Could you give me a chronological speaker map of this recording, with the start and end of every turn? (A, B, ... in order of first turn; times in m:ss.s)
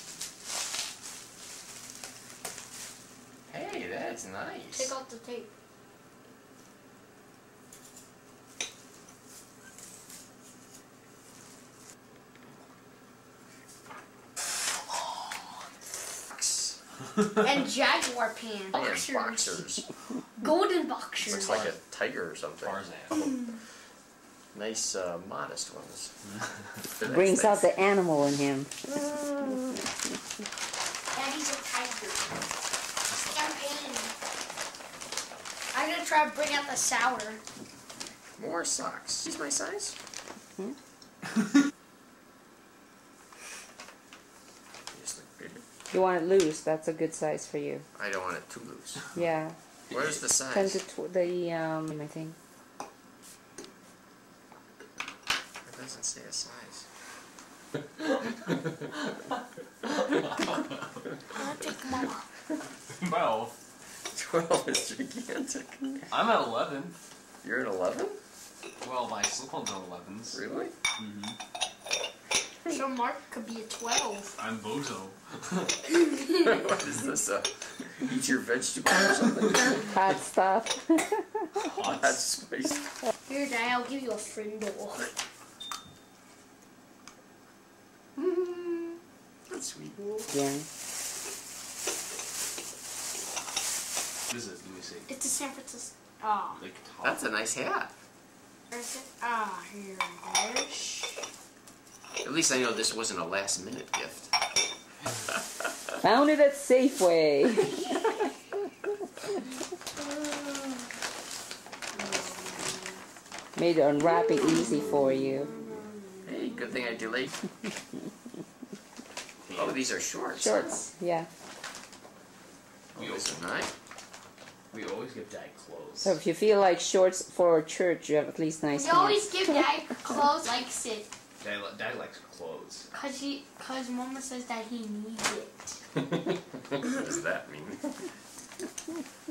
0:03.5-0:04.9 A
0:04.7-0:05.5 B
0:16.3-0:16.8 A
0:17.3-0:19.6 B
0:18.7-0:19.8 A
0:20.4-0:21.6 B
0:21.2-0:22.8 A
0:22.6-0:23.2 C
0:24.5-0:26.1 A
0:26.9-0:27.7 A
0:27.0-0:28.7 D
0:28.9-0:29.6 A
0:31.1-0:32.4 B
0:33.2-0:34.1 B
0:35.7-0:37.4 B
0:38.4-0:39.9 A
0:44.9-0:45.6 A
0:45.9-0:47.8 D
0:47.9-0:49.0 A
0:49.1-0:49.6 D
0:49.9-0:50.8 A
0:50.5-0:52.4 D
0:55.6-0:56.8 A
1:00.0-1:00.9 C
1:01.3-1:02.2 B
1:02.9-1:03.5 C
1:04.1-1:06.1 A
1:06.1-1:06.9 C
1:07.4-1:08.2 A
1:08.8-1:10.4 C
1:10.3-1:10.7 A
1:11.0-1:11.4 C
1:12.7-1:14.3 B
1:14.4-1:15.7 C
1:16.3-1:20.0 A
1:19.8-1:21.5 D
1:21.6-1:22.2 C
1:21.6-1:22.9 A
1:23.2-1:25.1 B
1:28.2-1:30.0 A
1:30.0-1:30.3 B
1:30.3-1:30.6 D
1:34.3-1:35.1 C
1:35.1-1:36.6 B
1:36.6-1:37.2 C
1:37.0-1:37.9 A
1:38.7-1:41.2 B
1:42.2-1:44.3 A
1:46.0-1:47.8 D
1:51.9-1:52.9 B
1:53.6-1:55.5 D
1:54.3-1:56.1 B
1:56.2-1:57.3 A
1:59.4-1:59.9 C
1:59.5-2:00.8 A
2:00.3-2:01.3 D
2:02.9-2:03.7 A
2:03.0-2:03.4 C
2:04.7-2:06.2 C
2:06.0-2:09.5 D
2:08.7-2:11.1 B
2:11.4-2:12.9 C
2:12.9-2:15.8 B
2:16.7-2:18.0 A